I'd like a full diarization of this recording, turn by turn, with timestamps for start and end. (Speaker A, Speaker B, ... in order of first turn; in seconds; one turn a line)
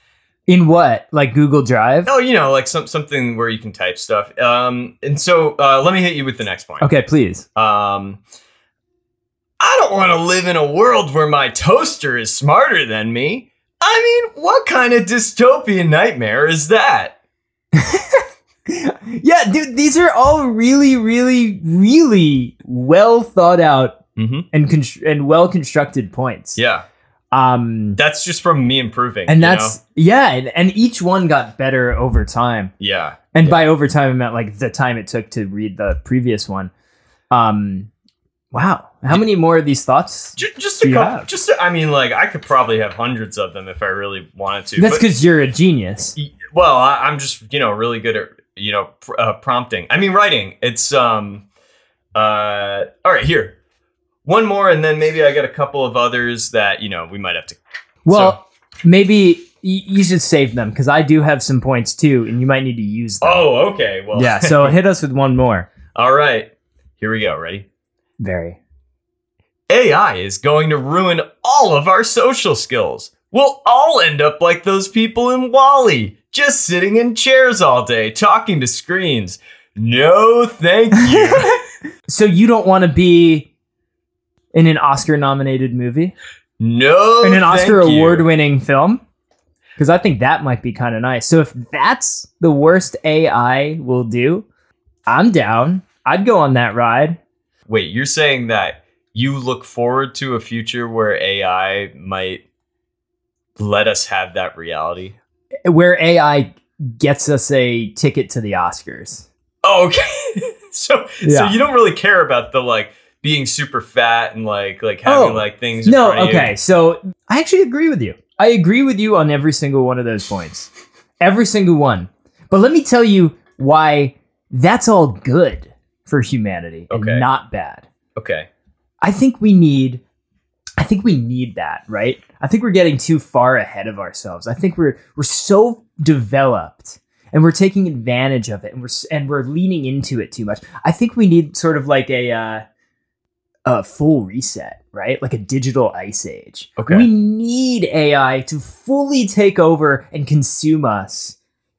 Speaker A: 0.5-2.1
Speaker B: 2.1-6.9
Speaker A: 6.8-7.5
Speaker B: 7.5-8.2
Speaker B: 9.6-17.2
Speaker A: 17.7-24.0
Speaker B: 24.2-24.5
Speaker A: 24.5-26.6
Speaker B: 26.6-26.9
Speaker A: 27.3-28.0
Speaker B: 28.0-29.8
Speaker A: 29.3-32.7
Speaker B: 32.8-33.6
Speaker A: 33.3-36.7
Speaker A: 37.3-37.9
Speaker A: 38.5-41.3
Speaker B: 40.4-45.1
Speaker A: 44.8-46.2
Speaker B: 46.2-51.5
Speaker B: 52.1-53.6
Speaker B: 54.2-57.6
Speaker A: 58.1-63.5
Speaker B: 58.1-58.4
Speaker B: 63.2-64.8
Speaker A: 64.1-65.7
Speaker B: 65.9-67.7
Speaker A: 68.2-68.6
Speaker B: 69.7-81.6
Speaker A: 80.9-81.5
Speaker A: 82.1-83.5
Speaker A: 84.5-86.1
Speaker B: 86.6-88.3
Speaker A: 87.2-89.0
Speaker A: 89.8-94.5
Speaker A: 95.1-97.2
Speaker B: 97.7-102.4
Speaker B: 103.6-105.2
Speaker A: 105.7-109.3
Speaker B: 109.6-116.6
Speaker A: 111.2-111.6
Speaker A: 115.1-127.8
Speaker B: 126.9-127.3
Speaker B: 128.2-128.5
Speaker A: 129.0-130.0
Speaker A: 130.8-142.6
Speaker A: 143.7-151.4
Speaker B: 146.8-147.1